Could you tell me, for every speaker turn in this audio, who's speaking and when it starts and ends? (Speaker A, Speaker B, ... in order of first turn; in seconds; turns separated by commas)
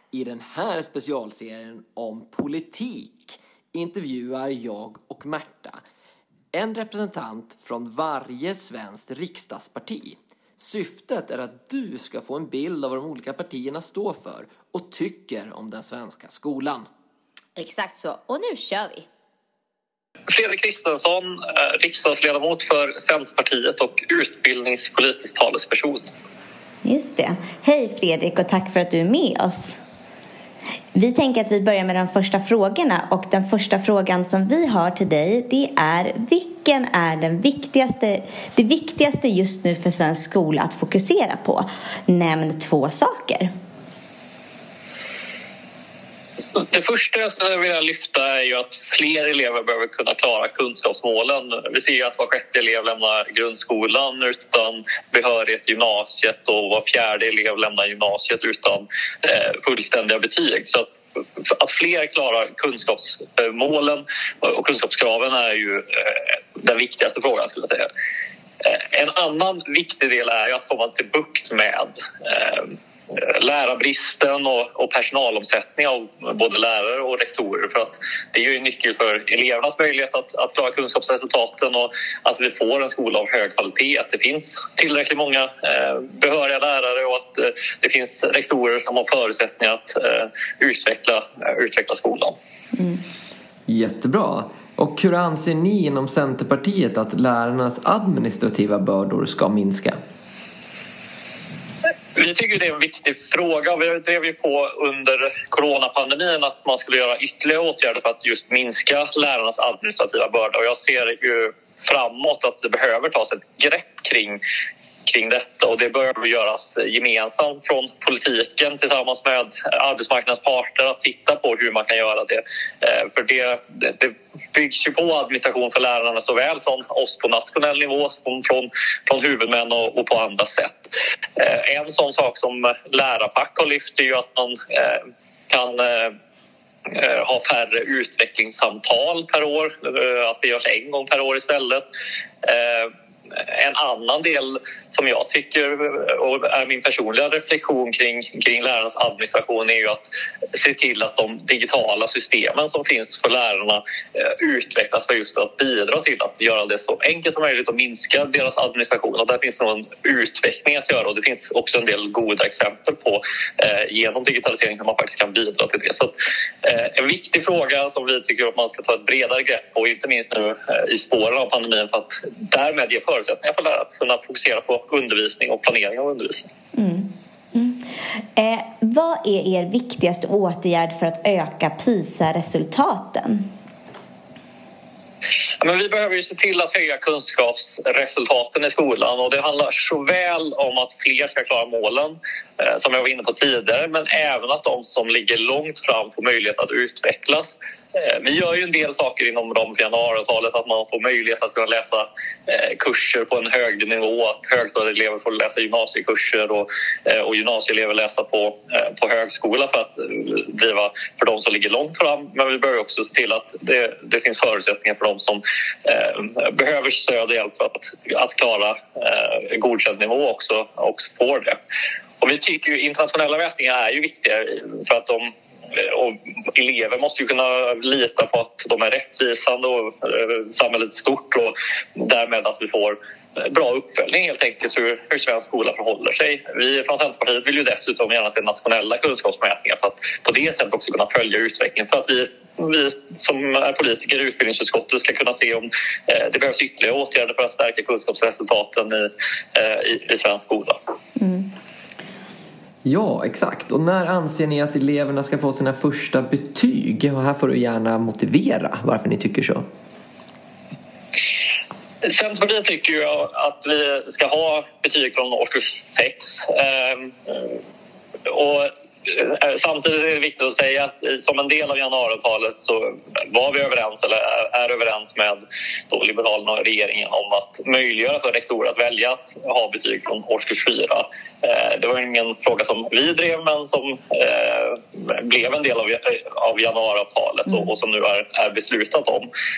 Speaker A: 0.1-5.8, Speaker A: 6.5-16.9, Speaker B: 17.6-19.1, Speaker C: 20.3-26.1, Speaker B: 26.8-29.8, Speaker B: 30.9-43.5, Speaker C: 46.5-67.9, Speaker C: 68.6-92.3, Speaker A: 93.7-100.0, Speaker C: 102.1-114.4, Speaker C: 115.0-136.1, Speaker C: 136.9-141.8, Speaker C: 142.4-176.5, Speaker B: 176.8-183.4, Speaker C: 185.6-221.6, Speaker C: 222.2-250.8, Speaker B: 251.2-251.5, Speaker A: 252.8-259.6, Speaker C: 262.0-267.6, Speaker C: 268.3-289.3